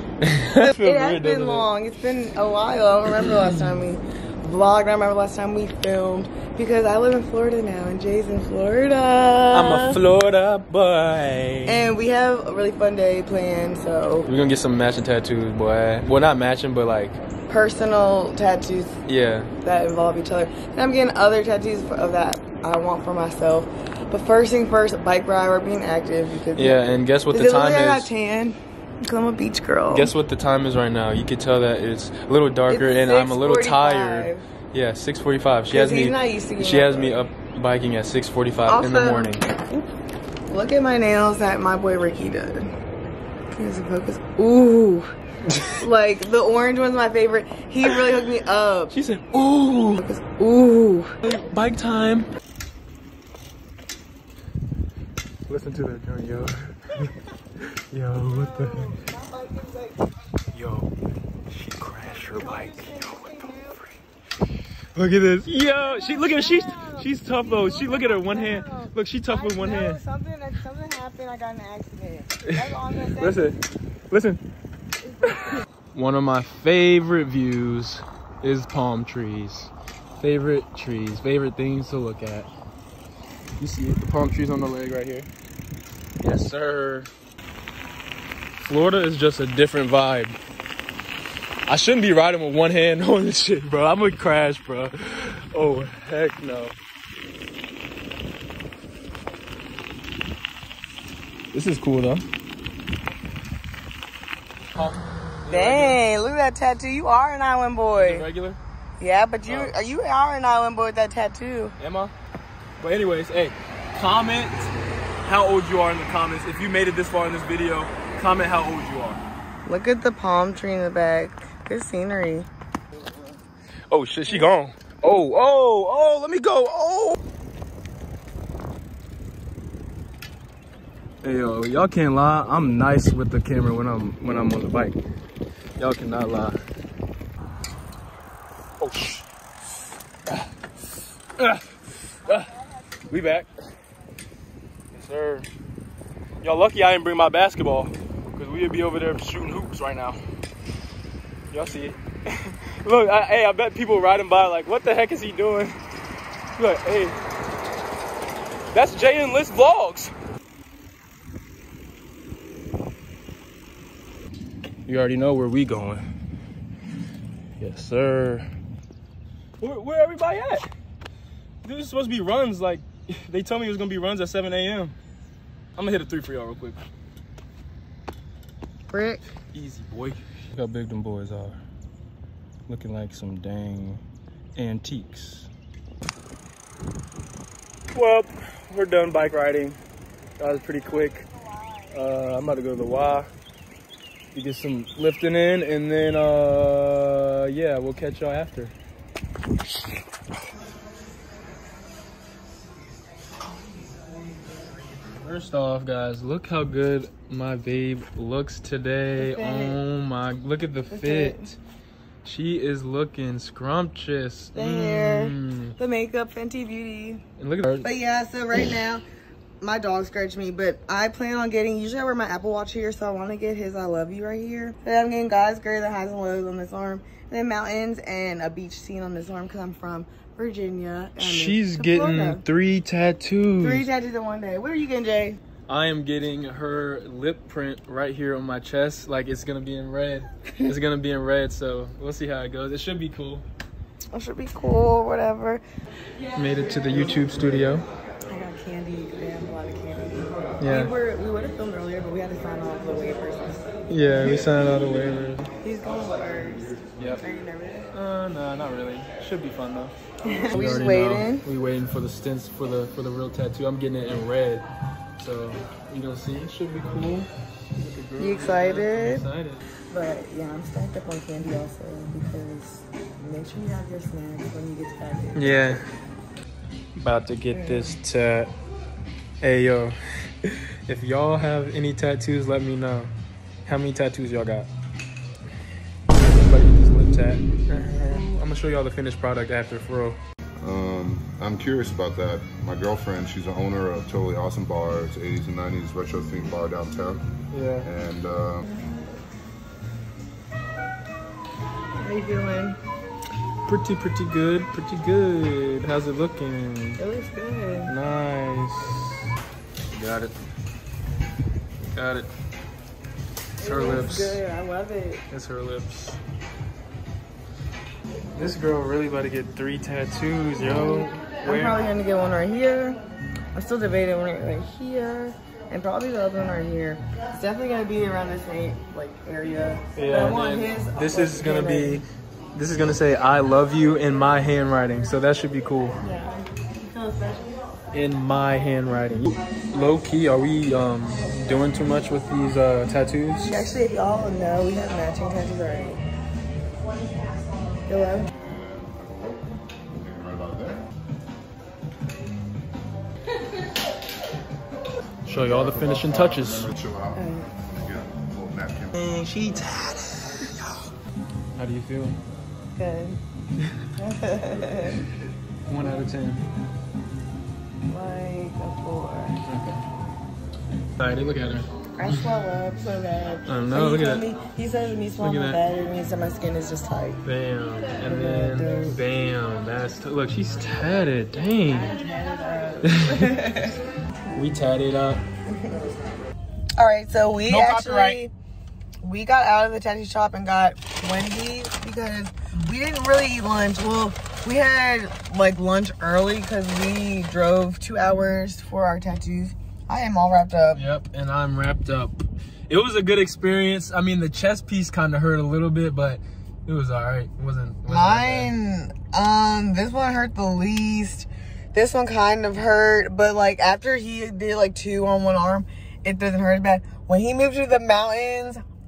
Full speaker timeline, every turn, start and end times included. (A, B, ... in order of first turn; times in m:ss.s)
0:00.3-0:01.7 A
0:00.5-0:10.0 B
0:09.5-0:11.9 A
0:11.7-0:14.3 B
0:14.2-0:17.2 A
0:17.5-0:19.0 B
0:19.1-0:19.5 A
0:19.6-0:30.1 B
0:26.6-0:28.1 A
0:29.9-0:39.5 A
0:32.7-0:34.5 B
0:35.7-0:37.2 B
0:38.7-0:39.9 B
0:40.5-0:42.7 B
0:43.5-0:45.1 B
0:45.7-0:49.0 B
0:48.9-0:50.0 A
0:50.0-0:51.2 B
0:51.2-0:52.3 A
0:55.5-0:59.0 A
0:58.2-1:00.1 B
1:00.5-1:00.9 A
1:01.5-1:03.2 A
1:02.0-1:03.8 B
1:05.0-1:10.0 A
1:05.8-1:13.6 B
1:12.4-1:13.6 A
1:14.1-1:14.4 A
1:15.9-1:22.5 A
1:23.6-1:25.3 A
1:26.2-1:27.1 A
1:28.6-1:30.4 A
1:31.7-1:36.8 A
1:41.5-1:42.2 A
1:44.7-1:46.0 A
1:45.5-1:48.3 B
1:48.0-1:48.6 A
1:49.0-1:51.7 B
1:49.5-1:49.7 A
1:51.8-1:52.1 A
1:52.8-1:54.7 A
1:55.3-1:59.2 A
1:59.6-2:02.5 B
2:03.9-2:07.2 A
2:11.2-2:15.0 A
2:15.8-2:16.6 A
2:18.8-2:19.2 A
2:21.4-2:23.5 A
2:24.9-2:25.5 A
2:26.4-2:30.2 A
2:31.5-2:35.8 A
2:36.6-2:37.2 A
2:38.7-2:40.1 A
2:44.9-2:46.0 A
2:47.6-2:48.5 A
2:49.6-2:50.7 A
2:51.6-2:55.0 A
2:55.8-2:56.8 A
2:58.9-2:59.2 B
2:59.5-3:01.6 A
3:02.7-3:04.0 A
3:04.6-3:05.5 A
3:07.9-3:09.8 A
3:10.4-3:11.2 A
3:11.9-3:13.3 A
3:14.3-3:18.7 A
3:25.1-3:31.6 A
3:29.2-3:29.8 B
3:30.9-3:31.5 B
3:32.2-3:35.7 A
3:34.6-3:37.2 B
3:37.4-3:37.9 A
3:37.8-3:39.0 B
3:39.6-3:52.4 B
3:51.2-3:53.9 A
3:53.6-3:55.4 B
3:55.7-4:03.4 A
4:04.1-4:05.6 B
4:06.4-4:07.8 A
4:06.9-4:07.3 B
4:08.3-4:14.6 B
4:10.6-4:10.9 A
4:13.9-4:15.5 A
4:15.6-4:17.9 B
4:17.9-4:19.9 A
4:20.2-4:21.4 B
4:20.5-4:24.7 A
4:25.2-4:29.7 A
4:28.2-4:29.3 B
4:29.9-4:35.8 B
4:35.4-4:35.9 A
4:37.0-4:38.5 A
4:37.5-4:38.0 B
4:39.4-4:43.1 A
4:43.7-4:44.7 A
4:46.1-4:50.2 A
4:50.6-4:57.2 C
4:57.5-4:57.9 A
4:57.8-4:58.6 C
5:02.0-5:02.8 B
5:03.7-5:07.0 A
5:07.0-5:07.9 B
5:07.9-5:09.2 A
5:09.9-5:10.3 A
5:11.9-5:12.3 A
5:13.6-5:14.4 A
5:13.6-5:15.2 B
5:15.3-5:16.2 A
5:18.4-5:21.8 A
5:20.6-5:23.0 B
5:23.5-5:32.0 B
5:30.0-5:32.0 A
5:32.6-5:36.0 A
5:36.0-5:37.6 B
5:37.9-5:43.5 A
5:43.4-5:46.0 B
5:47.9-5:48.3 B
5:48.4-5:50.8 C
5:55.3-5:56.7 A
5:55.3-5:59.0 C
5:57.1-5:57.5 B
5:59.0-6:00.9 A
6:01.6-6:02.2 A
6:02.8-6:03.2 B
6:04.0-6:05.0 B
6:05.7-6:06.4 A
6:07.9-6:09.4 B
6:09.5-6:09.8 A
6:11.0-6:12.3 A
6:12.0-6:17.2 B
6:13.5-6:14.3 A
6:15.2-6:15.6 A
6:17.2-6:22.0 A
6:18.0-6:19.0 B
6:21.7-6:23.8 B
6:22.9-6:23.3 A
6:24.4-6:25.2 A
6:25.5-6:25.9 B
6:26.8-6:28.3 B
6:27.5-6:28.2 A
6:29.0-6:40.9 B
6:40.7-6:48.5 A
6:47.9-6:58.6 B